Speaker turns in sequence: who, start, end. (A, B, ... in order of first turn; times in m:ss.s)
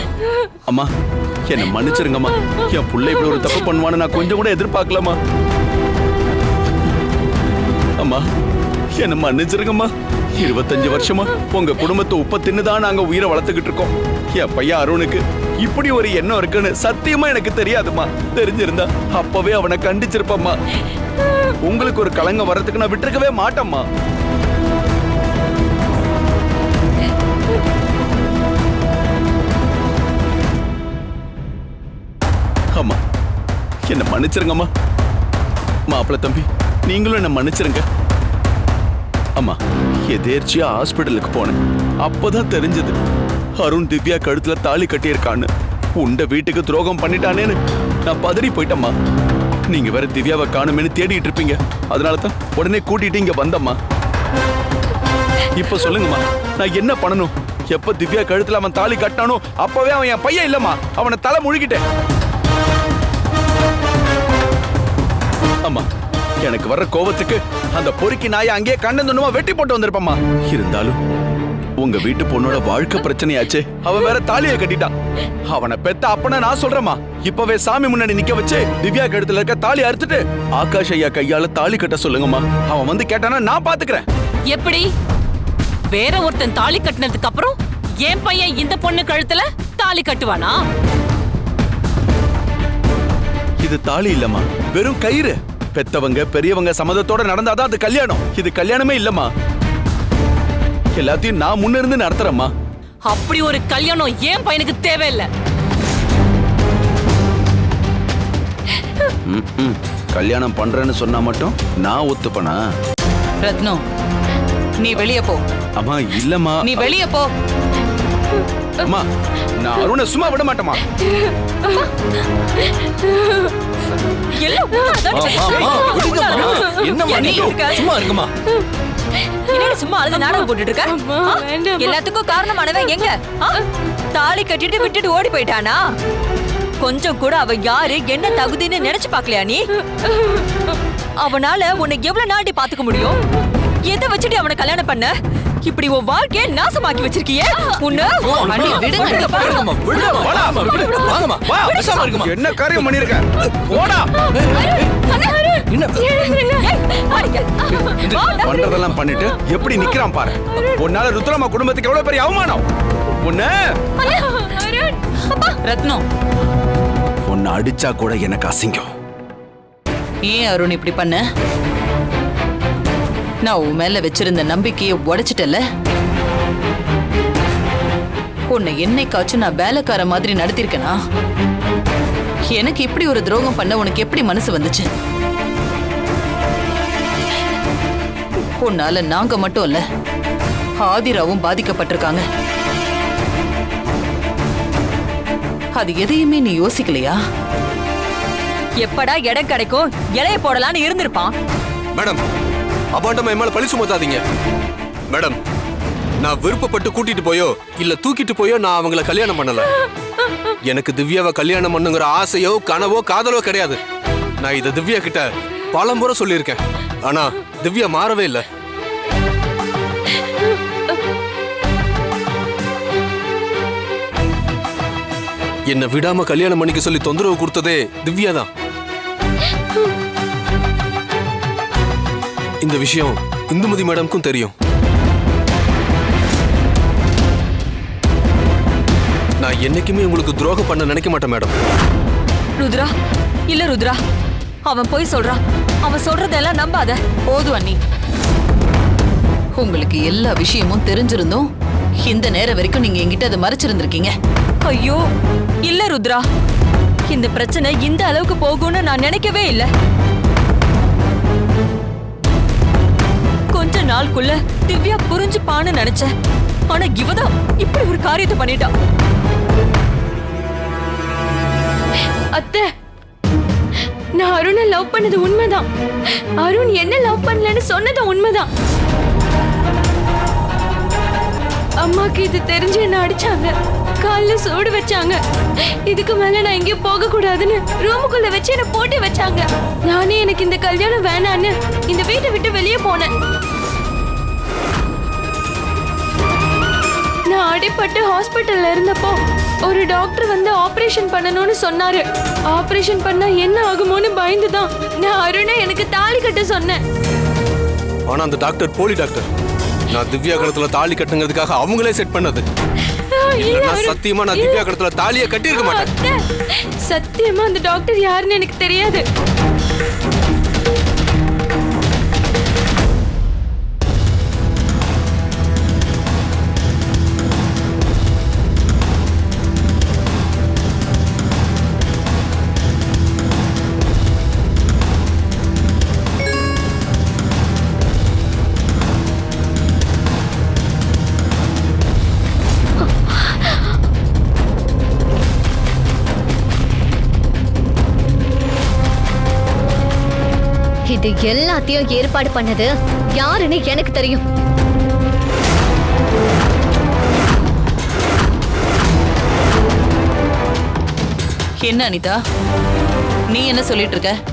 0:01.5-0:05.2 A
0:08.0-0:08.2 A
0:09.0-0:20.6 A
0:21.6-0:23.8 A
0:33.9-0:34.7 A
0:35.9-0:37.8 A
0:40.1-0:42.9 A
0:43.6-0:48.9 A
0:49.7-0:53.8 A
0:55.6-1:01.8 A
1:06.4-1:11.0 A
1:11.8-1:14.9 A
1:15.4-1:24.0 A
1:24.5-1:24.9 B
1:25.9-1:30.6 B
1:33.6-1:39.3 A
1:41.0-1:42.5 A
1:43.1-1:45.3 B
1:49.2-1:52.6 A
1:53.4-1:53.8 C
1:54.8-1:55.4 C
1:55.8-1:56.8 A
1:56.6-1:57.3 C
1:59.6-2:00.8 A
2:01.0-2:03.5 D
2:04.3-2:08.0 E
2:05.1-2:08.3 F
2:05.5-2:06.8 D
2:08.5-2:12.0 D
2:09.5-2:13.6 E
2:14.1-2:15.8 E
2:16.8-2:19.6 E
2:19.9-2:20.7 D
2:21.2-2:23.2 E
2:23.8-2:25.1 E
2:25.6-2:32.1 E
2:28.0-2:35.1 F
2:28.4-2:29.5 C
2:30.1-2:30.8 A
2:31.4-2:34.1 A
2:34.4-2:37.3 D
2:35.7-2:36.4 F
2:36.5-2:38.7 E
2:37.8-2:38.3 F
2:38.4-2:42.6 A
2:39.3-2:39.9 D
2:40.5-2:40.8 D
2:43.2-2:43.6 A
2:44.0-2:45.0 D
2:45.3-2:45.5 E
2:45.6-2:46.0 C
2:47.3-2:48.9 A
2:50.2-2:51.2 C
2:53.4-2:55.6 C
2:58.5-3:01.0 C
3:02.5-3:04.9 C
3:08.6-3:09.8 C
3:10.8-3:12.2 C
3:15.8-3:17.2 C
3:18.8-3:21.3 E
3:21.9-3:22.2 G
3:22.9-3:24.2 G
3:25.1-3:25.4 G
3:26.2-3:29.7 G
3:30.6-3:33.8 G
3:34.4-3:38.4 G
3:45.7-3:48.5 G
3:52.6-3:54.5 G
3:59.4-4:01.5 G
4:02.6-4:02.9 E
4:03.5-4:04.0 E
4:04.6-4:07.0 E
4:07.3-4:07.8 C
4:09.6-4:11.4 C
4:12.0-4:14.1 C
4:14.6-4:15.0 E
4:15.6-4:16.2 E
4:17.1-4:19.7 E
4:23.5-4:26.1 E
4:26.7-4:28.7 E
4:32.3-4:32.7 D
4:34.2-4:38.5 D
4:41.8-4:45.2 D
4:45.9-4:53.1 D
4:57.3-5:06.8 D
5:08.1-5:09.2 G
5:09.9-5:12.4 G
5:13.1-5:14.6 D
5:13.4-5:15.9 G
5:15.5-5:19.0 D
5:43.0-5:43.6 H
5:50.9-5:54.2 H
6:01.6-6:02.2 C
6:03.3-6:04.1 C